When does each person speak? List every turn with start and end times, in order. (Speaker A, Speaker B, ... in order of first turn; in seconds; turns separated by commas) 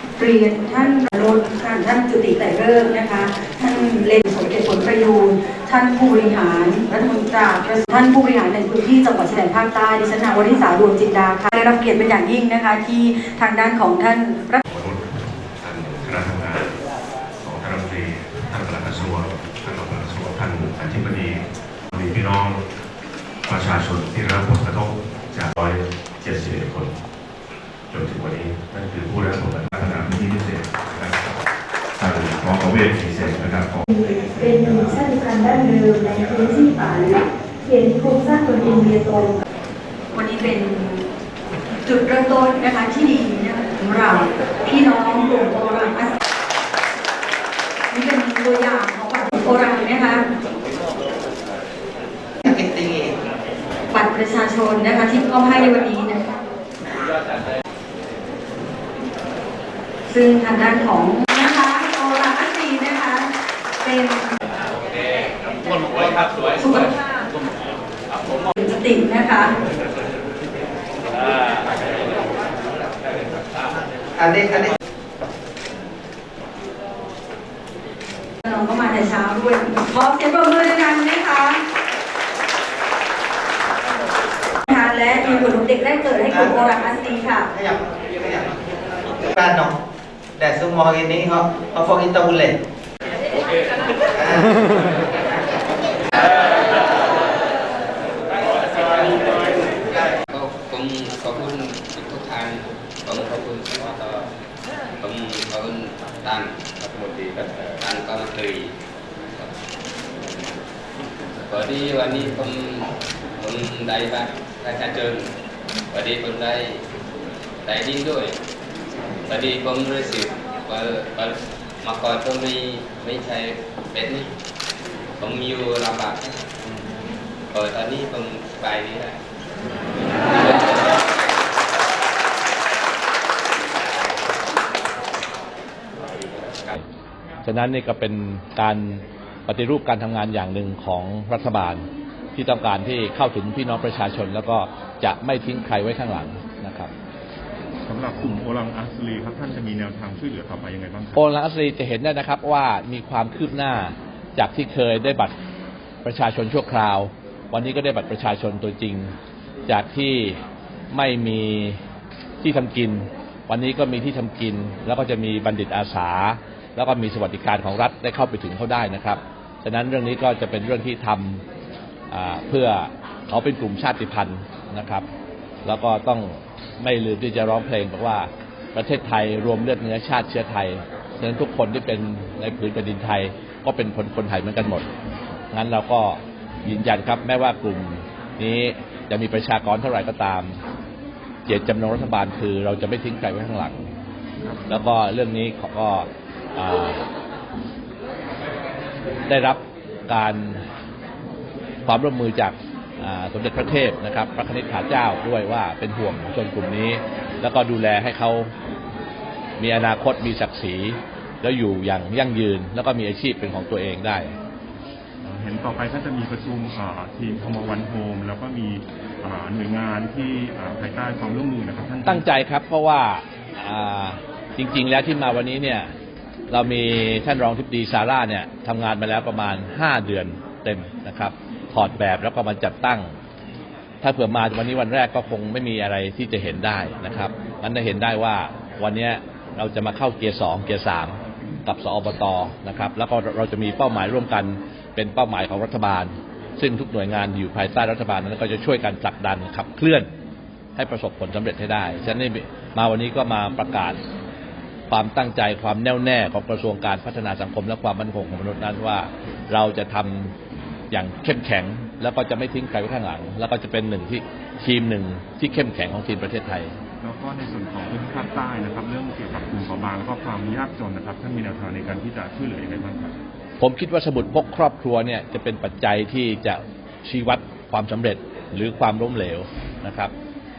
Speaker A: 0.2-14.6, Speaker B: 14.7-16.7, Speaker B: 17.4-22.6, Speaker B: 23.4-27.0, Speaker B: 27.9-31.3, Speaker B: 32.0-33.9, Speaker C: 33.9-39.4, Speaker A: 40.1-41.1, Speaker A: 41.9-46.1, Speaker A: 47.9-50.2, Speaker D: 52.5-53.1, Speaker A: 53.9-56.2, Speaker A: 60.1-64.3, Speaker A: 66.5-67.0, Speaker A: 68.6-69.5, Speaker D: 74.2-74.7, Speaker A: 78.4-81.6, Speaker A: 84.7-87.5, Speaker D: 87.5-88.5, Speaker D: 89.3-89.8, Speaker D: 90.4-92.6, Speaker D: 94.1-94.5, Speaker E: 99.0-99.3, Speaker E: 100.3-104.3, Speaker E: 105.0-108.7, Speaker E: 111.5-115.3, Speaker E: 115.9-116.8, Speaker E: 117.7-118.3, Speaker E: 119.3-124.3, Speaker E: 125.2-126.3, Speaker E: 127.5-129.2, Speaker E: 130.3-131.2, Speaker F: 137.4-146.9, Speaker G: 147.9-151.2, Speaker F: 151.2-155.4, Speaker F: 156.0-159.1, Speaker F: 159.7-160.4, Speaker F: 160.9-161.8, Speaker F: 162.4-171.4, Speaker F: 172.1-175.1, Speaker F: 175.7-184.9, Speaker F: 185.5-190.6, Speaker F: 191.5-193.9, Speaker F: 194.7-197.0, Speaker F: 199.3-200.7, Speaker F: 201.8-208.5, Speaker F: 209.6-214.3, Speaker G: 215.2-222.2, Speaker F: 222.1-225.9, Speaker F: 226.5-233.2, Speaker F: 234.0-250.1, Speaker F: 250.8-254.0, Speaker F: 254.9-260.3, Speaker F: 260.9-266.7, Speaker G: 267.0-273.1, Speaker F: 273.6-280.1